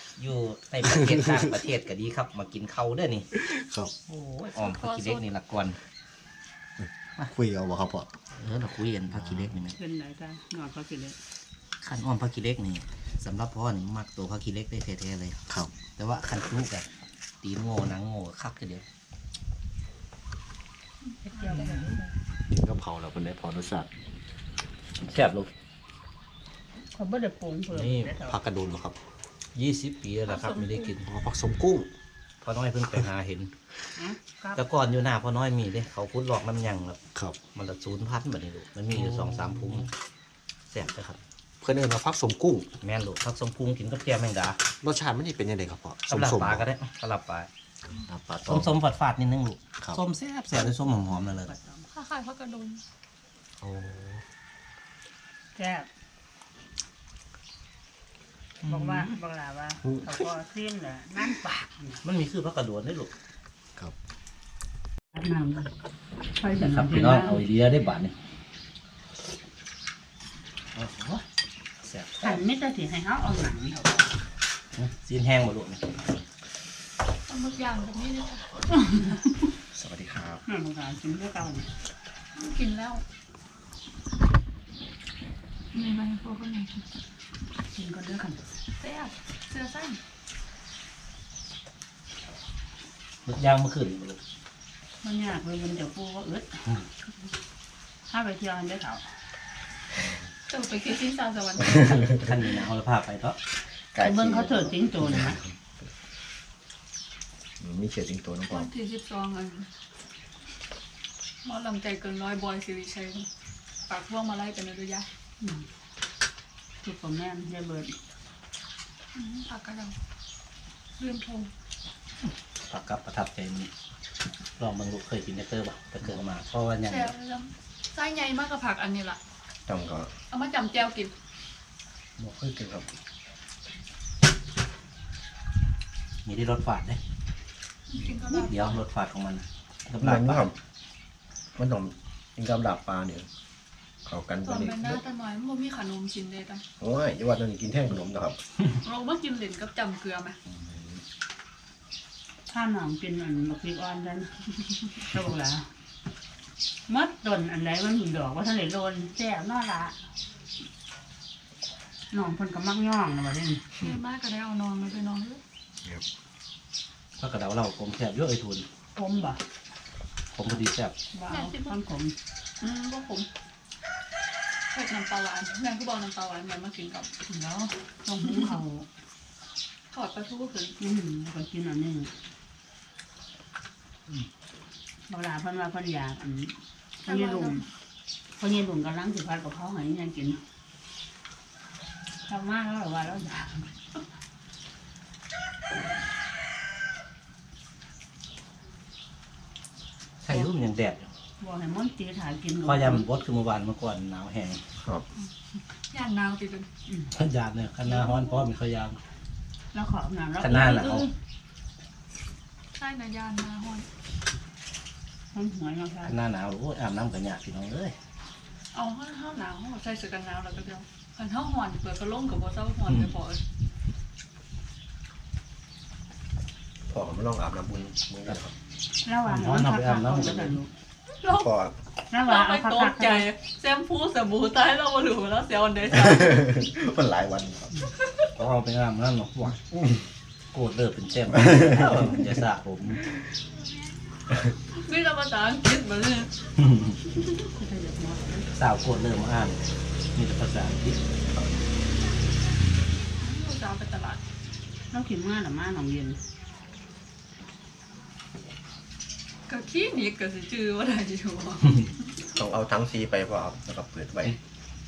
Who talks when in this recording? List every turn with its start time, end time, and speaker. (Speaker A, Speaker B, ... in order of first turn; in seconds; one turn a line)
Speaker A: 0.2-3.3
Speaker B: 0.8-1.6
Speaker B: 3.3-3.9
Speaker A: 4.1-5.8
Speaker C: 4.6-5.2
Speaker B: 6.8-8.1
Speaker A: 8.3-9.8
Speaker B: 9.1-9.5
Speaker D: 9.7-11.2
Speaker A: 11.8-15.4
Speaker B: 15.5-15.7
Speaker A: 15.9-16.9
Speaker A: 17.4-18.8
Speaker C: 21.1-21.9
Speaker D: 21.3-22.1
Speaker B: 22.5-23.9
Speaker A: 25.0-25.5
Speaker D: 26.9-28.4
Speaker A: 27.7-28.1
Speaker B: 28.2-29.0
Speaker A: 29.5-31.1
Speaker C: 30.3-30.9
Speaker B: 31.1-31.9
Speaker A: 32.4-33.5
Speaker D: 34.0-34.6
Speaker A: 34.5-37.0
Speaker A: 37.5-39.9
Speaker B: 38.9-39.9
Speaker A: 40.7-41.2
Speaker B: 41.6-42.7
Speaker A: 42.8-44.6
Speaker B: 44.8-46.7
Speaker A: 46.1-47.5
Speaker B: 47.9-48.7
Speaker A: 48.5-51.5
Speaker D: 50.8-51.9
Speaker C: 51.9-52.8
Speaker B: 53.6-54.2
Speaker D: 55.5-55.9
Speaker A: 58.6-59.1
Speaker D: 58.6-62.0
Speaker A: 62.0-63.1
Speaker D: 65.1-65.7
Speaker D: 66.4-67.2
Speaker A: 66.5-68.1
Speaker C: 66.7-67.3
Speaker A: 70.8-71.2
Speaker A: 71.8-72.4
Speaker D: 72.2-74.1
Speaker A: 74.8-75.8
Speaker C: 77.3-79.1
Speaker B: 79.7-80.4
Speaker D: 80.5-81.7
Speaker C: 82.3-83.0
Speaker C: 85.7-86.9
Speaker D: 87.7-88.4
Speaker C: 88.8-90.0
Speaker A: 93.2-94.2
Speaker D: 95.0-96.7
Speaker D: 98.1-99.0
Speaker C: 100.5-102.2
Speaker A: 101.7-103.4
Speaker B: 103.9-105.5
Speaker D: 104.0-105.4
Speaker B: 107.6-108.7
Speaker C: 108.5-109.7
Speaker C: 111.4-113.3
Speaker C: 113.9-115.1
Speaker D: 115.4-115.7
Speaker D: 116.8-117.9
Speaker C: 119.1-120.0
Speaker C: 121.0-121.5
Speaker A: 122.7-123.7
Speaker A: 124.6-127.1
Speaker C: 126.8-129.2
Speaker B: 129.7-130.1
Speaker C: 130.3-131.1
Speaker B: 132.2-132.9
Speaker A: 136.2-137.0
Speaker C: 137.9-138.8
Speaker A: 138.2-140.5
Speaker B: 140.0-140.6
Speaker B: 141.6-143.3
Speaker B: 144.0-145.0
Speaker C: 144.4-146.6
Speaker B: 146.8-148.4
Speaker C: 148.8-150.4
Speaker B: 150.5-151.0
Speaker D: 152.5-155.7
Speaker D: 156.9-160.0
Speaker D: 162.1-163.6
Speaker C: 163.8-165.4
Speaker A: 167.2-168.7
Speaker D: 168.9-169.4
Speaker A: 170.3-170.9
Speaker D: 171.1-172.2
Speaker C: 171.3-171.8
Speaker C: 172.6-173.3
Speaker C: 174.7-177.1
Speaker D: 177.2-178.8
Speaker C: 178.2-178.5
Speaker C: 179.9-180.8
Speaker D: 180.8-182.1
Speaker D: 185.1-187.6
Speaker C: 187.1-187.7
Speaker D: 188.4-190.4
Speaker D: 192.2-193.7
Speaker A: 200.2-201.1
Speaker D: 201.4-203.1
Speaker A: 202.6-204.6
Speaker B: 204.8-205.0
Speaker C: 205.9-206.7
Speaker A: 207.1-209.0
Speaker D: 208.0-208.4
Speaker D: 209.7-211.0
Speaker A: 210.4-211.1
Speaker C: 210.6-211.1
Speaker C: 212.8-213.9
Speaker D: 215.3-216.2
Speaker A: 216.0-217.9
Speaker C: 218.7-223.4
Speaker B: 226.9-228.5
Speaker D: 229.0-230.7
Speaker A: 229.2-230.6
Speaker C: 231.2-231.5
Speaker B: 231.2-231.7
Speaker D: 232.1-233.3
Speaker C: 232.2-236.5
Speaker B: 235.9-237.8
Speaker A: 238.3-239.6
Speaker B: 239.7-240.0
Speaker A: 240.5-243.0
Speaker B: 241.5-242.1
Speaker C: 244.7-246.3
Speaker A: 246.6-246.9
Speaker D: 247.6-248.5
Speaker A: 248.5-249.6
Speaker A: 250.1-251.0
Speaker B: 251.3-251.7
Speaker C: 253.2-254.2
Speaker D: 254.9-256.2
Speaker C: 259.5-261.9
Speaker B: 262.2-264.4